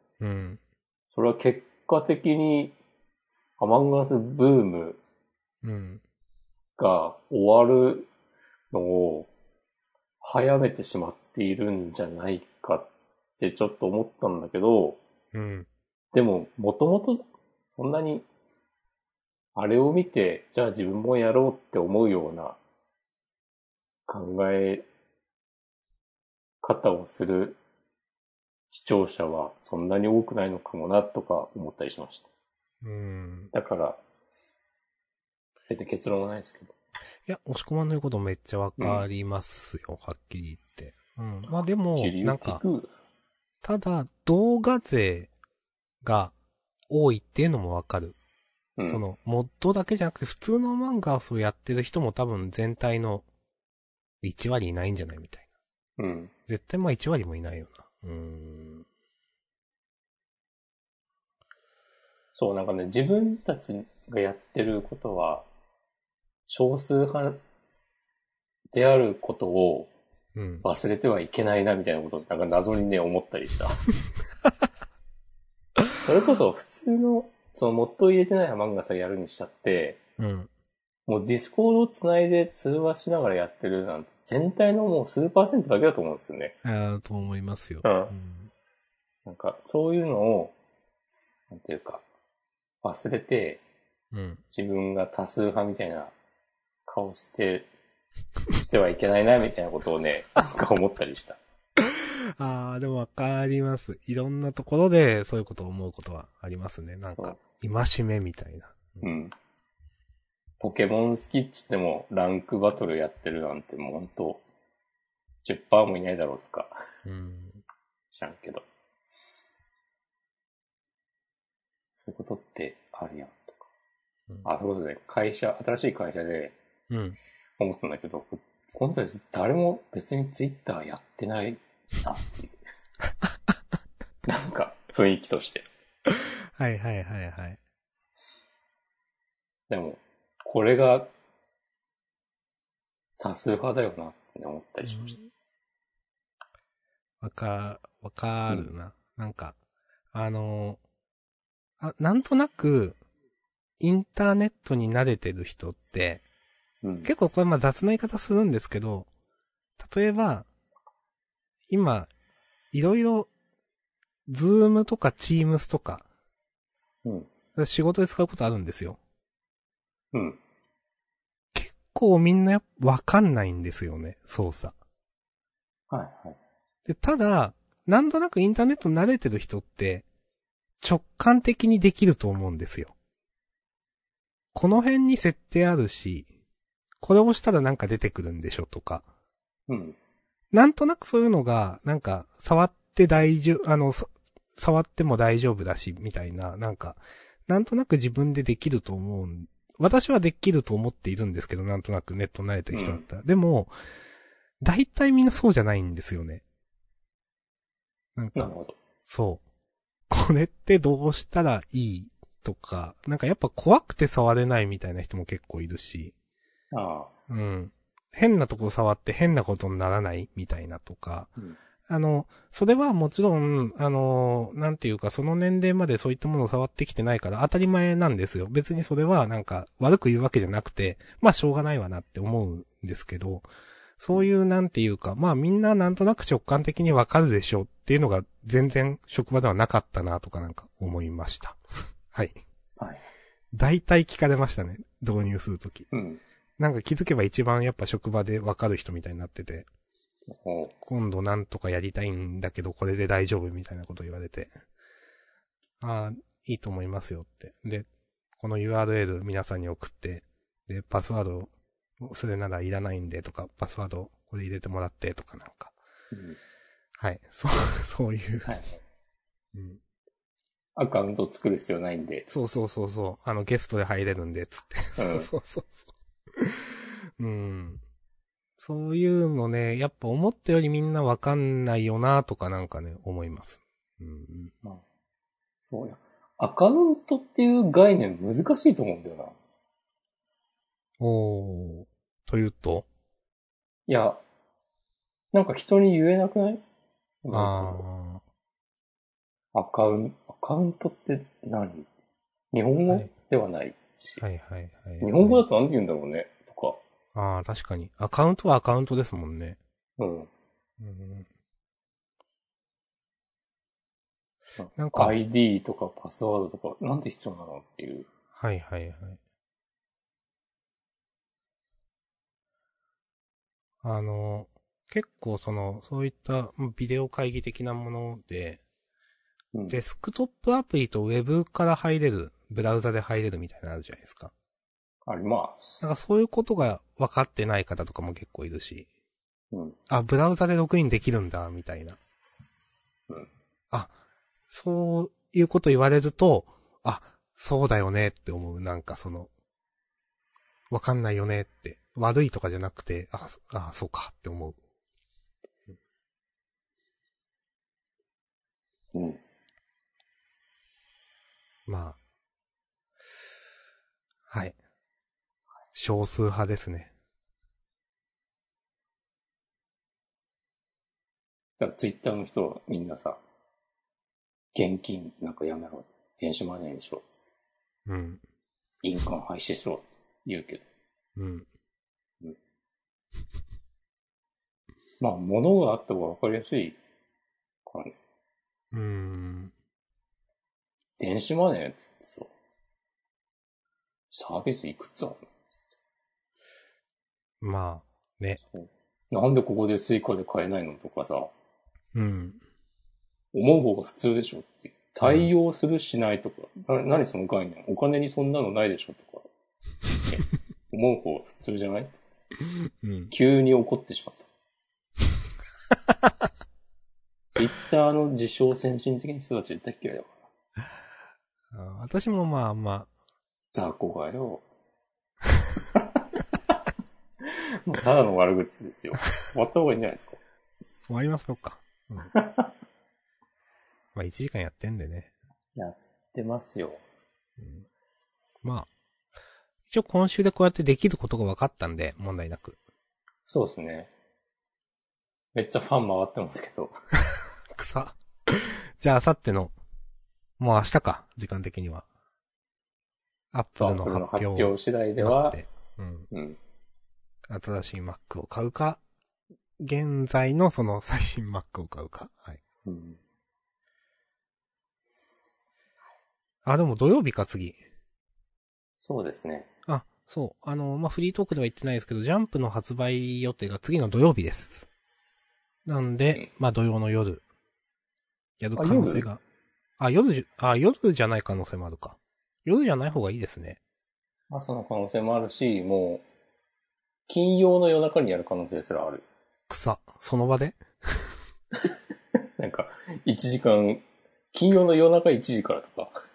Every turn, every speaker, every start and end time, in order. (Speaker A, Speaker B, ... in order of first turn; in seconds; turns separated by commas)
Speaker A: 0.2-0.6, Speaker B: 1.1-2.8, Speaker B: 3.6-5.0, Speaker A: 5.6-6.0, Speaker B: 6.8-8.1, Speaker B: 8.7-9.3, Speaker B: 10.2-15.0, Speaker A: 15.3-15.7, Speaker B: 16.1-18.3, Speaker B: 19.6-22.6, Speaker B: 24.1-24.9, Speaker B: 26.6-27.6, Speaker B: 28.7-32.3, Speaker A: 32.8-33.5, Speaker B: 33.5-34.0, Speaker B: 35.7-36.7, Speaker A: 37.3-42.6, Speaker B: 38.8-39.0, Speaker B: 42.0-42.9, Speaker A: 43.6-45.3, Speaker A: 46.0-46.3, Speaker A: 46.9-48.2, Speaker B: 48.8-49.0, Speaker A: 48.9-53.3, Speaker A: 54.2-55.5, Speaker B: 56.0-56.3, Speaker A: 56.5-58.9, Speaker B: 62.4-65.5, Speaker B: 66.5-67.4, Speaker B: 68.7-69.9, Speaker A: 70.4-70.7, Speaker B: 70.6-73.8, Speaker B: 76.0-80.0, Speaker A: 80.2-80.5, Speaker B: 81.1-86.5, Speaker A: 86.6-88.5, Speaker B: 87.8-88.1, Speaker B: 89.2-90.5, Speaker B: 91.5-92.0, Speaker B: 92.8-93.6, Speaker A: 94.1-94.4, Speaker B: 94.5-96.1, Speaker B: 96.9-97.7, Speaker B: 98.5-101.4, Speaker A: 101.8-109.0, Speaker B: 109.0-109.3, Speaker B: 110.6-114.4, Speaker B: 115.4-116.7, Speaker A: 117.0-117.6, Speaker B: 118.1-118.7, Speaker B: 121.9-123.6, Speaker B: 124.5-126.6, Speaker A: 126.9-127.2, Speaker B: 127.6-132.6, Speaker B: 134.3-135.7, Speaker A: 136.1-137.6, Speaker B: 139.7-141.1, Speaker B: 143.2-145.2, Speaker A: 144.9-145.2, Speaker A: 147.2-149.6, Speaker A: 150.1-150.8, Speaker A: 151.8-153.0, Speaker A: 153.8-156.2, Speaker B: 156.8-157.1, Speaker A: 157.0-159.1, Speaker A: 159.8-160.5, Speaker A: 161.7-162.1, Speaker A: 162.7-163.3, Speaker A: 164.3-166.1, Speaker A: 167.6-169.0, Speaker B: 170.1-170.4, Speaker A: 171.5-174.8, Speaker B: 175.9-176.4, Speaker A: 176.9-180.1, Speaker A: 180.8-182.9, Speaker A: 184.6-186.3, Speaker A: 187.0-189.1, Speaker B: 189.7-190.0, Speaker A: 190.5-203.7, Speaker B: 202.7-203.1, Speaker A: 204.6-206.4, Speaker A: 208.2-208.5, Speaker B: 208.3-208.8, Speaker A: 209.1-209.4, Speaker A: 210.1-216.1, Speaker B: 216.7-217.1, Speaker A: 217.3-221.3, Speaker A: 221.9-233.5, Speaker A: 234.0-241.6, Speaker A: 242.1-242.4, Speaker A: 243.5-245.9, Speaker B: 245.9-246.2, Speaker A: 246.6-249.7, Speaker B: 250.3-250.7, Speaker A: 250.8-254.5, Speaker A: 255.8-257.9, Speaker A: 258.4-265.8, Speaker B: 266.1-266.4, Speaker A: 267.0-268.6, Speaker A: 269.5-269.8, Speaker B: 270.8-272.3, Speaker A: 272.3-277.8, Speaker B: 275.0-275.3, Speaker A: 278.6-284.5, Speaker B: 285.7-289.4, Speaker A: 291.0-292.9, Speaker B: 293.9-294.2, Speaker B: 295.3-296.6, Speaker B: 297.2-297.9, Speaker A: 297.3-298.2, Speaker B: 299.5-304.2, Speaker A: 302.9-303.1, Speaker A: 304.2-305.4, Speaker B: 305.0-306.8, Speaker A: 307.1-309.6, Speaker B: 310.0-310.3, Speaker A: 310.8-311.3, Speaker B: 314.6-318.1, Speaker A: 314.8-315.1, Speaker A: 318.4-319.2, Speaker A: 323.8-328.6, Speaker B: 329.5-329.8, Speaker A: 329.7-334.3, Speaker B: 335.1-335.9, Speaker A: 335.8-338.9, Speaker B: 339.5-339.8, Speaker A: 339.9-342.0, Speaker A: 344.5-349.3, Speaker A: 350.7-354.6, Speaker B: 358.9-359.2, Speaker A: 361.7-362.0, Speaker A: 364.3-364.6, Speaker A: 365.7-366.9, Speaker B: 371.6-373.2, Speaker B: 374.5-377.2, Speaker A: 377.9-378.2, Speaker B: 378.8-380.6, Speaker A: 381.2-381.5, Speaker B: 385.0-386.8, Speaker B: 387.7-387.9, Speaker A: 388.7-389.5, Speaker B: 391.0-392.3, Speaker B: 394.1-395.7, Speaker A: 397.4-398.4, Speaker B: 398.5-401.3, Speaker A: 401.9-402.4, Speaker B: 403.3-409.3, Speaker A: 405.0-405.3, Speaker B: 410.1-411.9, Speaker A: 412.8-413.1, Speaker B: 413.1-414.3, Speaker A: 415.9-416.1, Speaker B: 417.3-420.3, Speaker A: 421.5-422.9, Speaker B: 423.5-424.4, Speaker B: 425.7-426.6, Speaker B: 427.2-430.2, Speaker A: 430.9-432.1, Speaker B: 432.1-432.5, Speaker A: 433.9-435.1, Speaker B: 435.6-436.8, Speaker A: 437.4-437.7, Speaker A: 438.4-438.7, Speaker A: 439.7-442.6, Speaker B: 443.3-443.9, Speaker B: 445.4-446.7, Speaker A: 447.5-449.5, Speaker A: 450.4-451.9, Speaker A: 453.3-456.1, Speaker B: 453.6-455.4, Speaker B: 456.1-456.4, Speaker A: 457.3-458.8, Speaker A: 459.6-462.4, Speaker B: 462.6-463.0, Speaker A: 466.4-467.6, Speaker B: 468.8-469.5, Speaker A: 469.7-474.7, Speaker A: 475.7-477.2, Speaker A: 478.4-479.2, Speaker B: 478.6-479.1, Speaker A: 479.8-483.6, Speaker B: 484.3-486.0, Speaker B: 487.1-489.1, Speaker A: 489.5-491.1, Speaker B: 491.6-495.9